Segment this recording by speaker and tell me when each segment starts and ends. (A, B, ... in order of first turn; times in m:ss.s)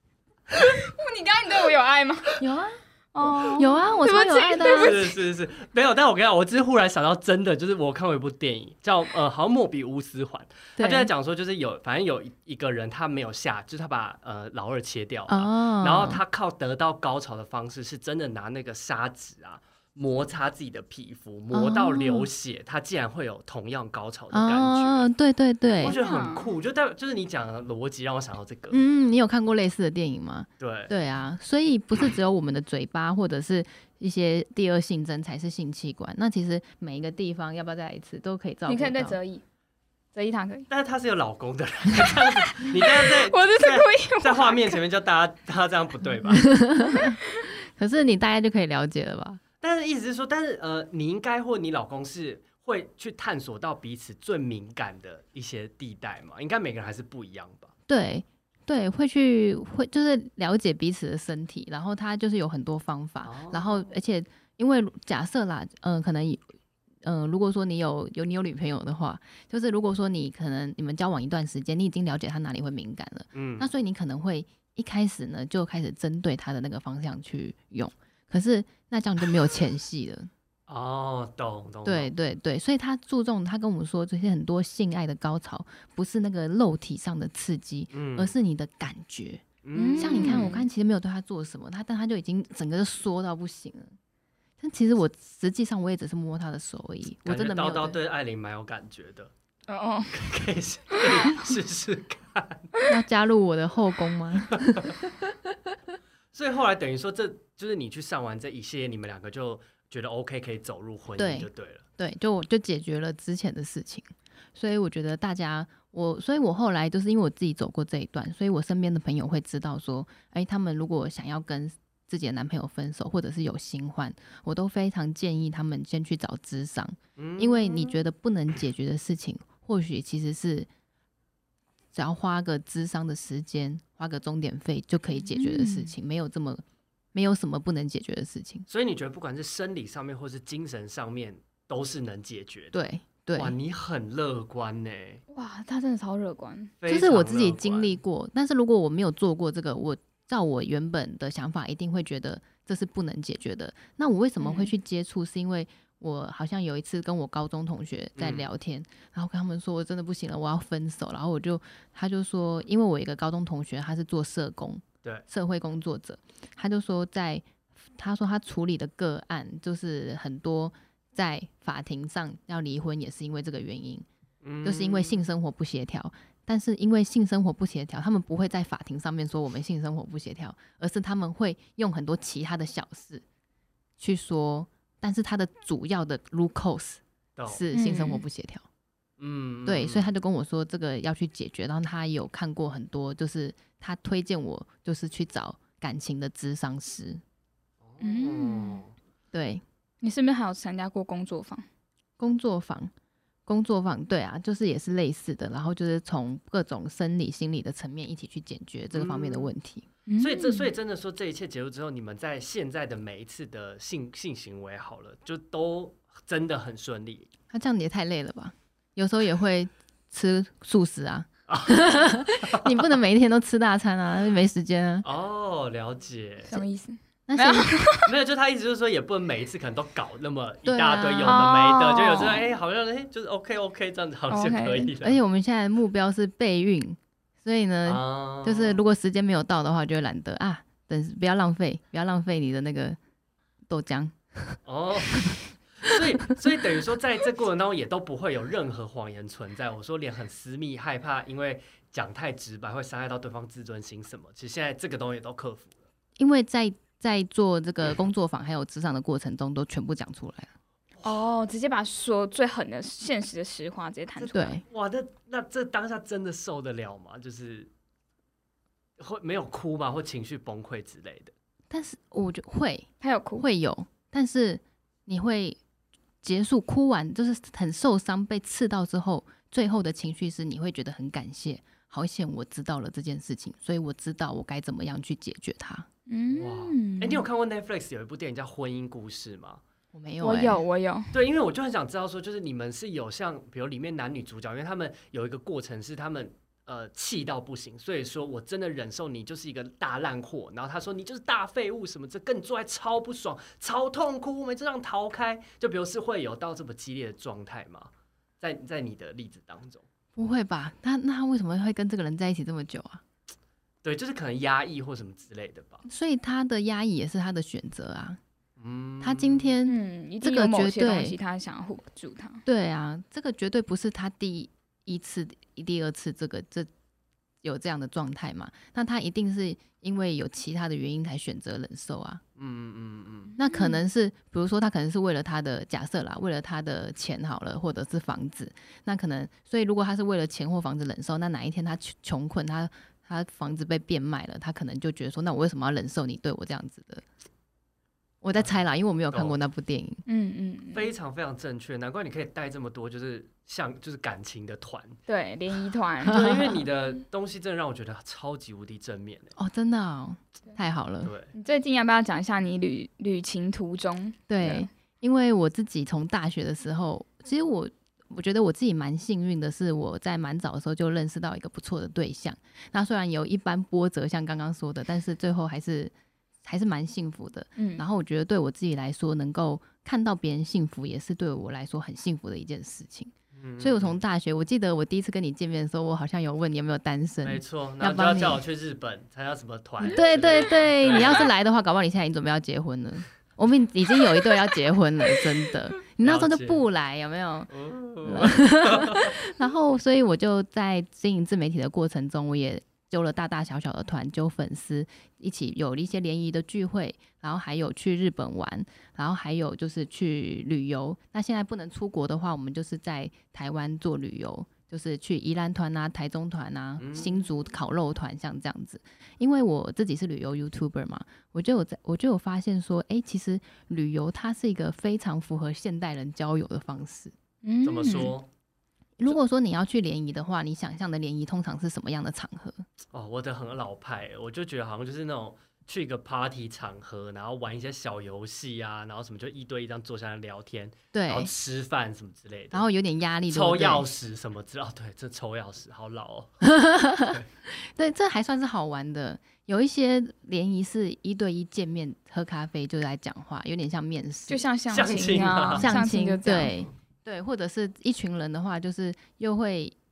0:00.6-0:02.4 A
0:02.4-0:05.0 B
0:03.1-0:05.1 A
0:04.7-0:25.1 C
0:10.8-0:11.1 B
0:15.3-0:16.2 B
0:21.5-0:22.3 B
0:24.3-0:26.0 B
0:25.8-0:28.8 C
0:25.8-0:26.5 A
0:28.7-0:39.2 B
0:30.6-0:30.9 C
0:38.7-0:39.4 A
0:40.1-0:40.7 A
0:40.7-0:46.5 C
0:42.3-0:44.8 A
0:46.3-0:47.2 B
0:47.8-0:49.4 B
0:49.6-0:57.7 C
0:57.9-1:06.5 B
1:03.2-1:03.8 C
1:07.0-1:20.3 B
1:13.3-1:13.7 C
1:20.7-1:22.1 C
1:21.8-1:29.4 B
1:27.9-1:28.3 C
1:29.6-1:30.5 C
1:29.7-1:30.7 A
1:30.0-1:34.0 B
1:34.6-1:38.0 B
1:37.2-1:39.3 C
1:39.7-1:40.2 A
1:40.1-1:42.7 C
1:40.9-1:41.5 A
1:42.9-1:45.3 B
1:46.3-1:51.8 C
1:51.2-2:10.7 B
2:07.2-2:08.0 C
2:11.9-2:16.6 B
2:15.1-2:15.9 A
2:17.1-2:18.7 B
2:18.7-2:22.8 C
2:22.7-2:23.6 B
2:23.4-2:25.2 C
2:25.3-2:26.7 A
2:26.8-2:28.0 C
2:26.8-2:54.0 B
2:34.4-2:34.7 A
2:38.2-2:38.5 C
2:54.4-2:55.2 C
2:54.6-3:03.2 B
3:04.0-3:08.6 B
3:07.7-3:08.2 A
3:09.2-3:10.1 C
3:09.6-3:17.2 B
3:17.8-3:18.9 C
3:18.0-3:18.8 A
3:19.3-3:19.6 B
3:20.0-3:21.6 A
3:22.2-3:22.9 B
3:23.5-3:29.8 B
3:28.9-3:29.5 C
3:30.1-3:30.7 A
3:30.2-3:37.3 C
3:37.5-3:45.0 B
3:41.5-3:42.8 C
3:45.0-3:46.6 C
3:46.5-3:48.1 A
3:47.3-3:47.7 B
3:48.0-3:55.2 C
3:50.6-3:51.4 B
3:51.2-3:52.5 A
3:54.3-3:54.9 A
3:55.0-4:03.0 B
3:57.8-3:58.8 C
4:03.7-4:04.6 B
4:04.6-4:15.7 C
4:16.2-4:20.5 B
4:21.0-4:24.6 A
4:24.2-4:27.7 C
4:24.3-4:24.6 B
4:29.0-4:31.3 C
4:31.7-4:35.6 B
4:33.0-4:33.4 A
4:36.2-4:45.9 B
4:46.1-4:47.2 A
4:46.3-4:49.6 C
4:49.9-4:50.6 B
4:50.2-4:51.1 A
4:51.1-5:09.8 C
5:10.2-5:13.0 B
5:13.8-5:15.8 C
5:15.8-5:18.2 B
5:18.6-5:19.5 C
5:19.0-5:21.1 B
5:19.6-5:22.4 A
5:22.4-5:26.7 B
5:27.4-5:32.2 B
5:32.4-5:33.3 C
5:33.4-5:47.0 B
5:33.4-5:33.8 A
5:48.2-5:50.0 B
5:50.0-5:50.9 A
5:50.7-5:55.0 C
5:55.1-5:56.4 A
5:56.0-5:56.6 B
5:56.1-5:59.3 C
5:59.4-6:01.1 B
6:01.0-6:01.3 C
6:01.3-6:04.7 A
6:04.3-6:15.9 B
6:16.4-6:28.4 B
6:17.6-6:17.8 A
6:23.3-6:24.0 C
6:27.2-6:31.3 C
6:29.8-6:37.5 B
6:36.0-6:36.6 C
6:37.5-6:39.2 C
6:38.0-7:07.1 B
6:56.8-6:57.2 C
7:07.4-7:08.2 A
7:07.6-7:08.3 C
7:09.0-7:12.6 B
7:12.9-7:22.6 C
7:20.9-7:21.3 B
7:22.5-7:23.8 B
7:23.3-7:26.4 C
7:26.4-7:34.4 B
7:27.0-7:27.2 C
7:34.3-7:36.5 A
7:34.7-7:35.7 C
7:35.5-7:39.7 B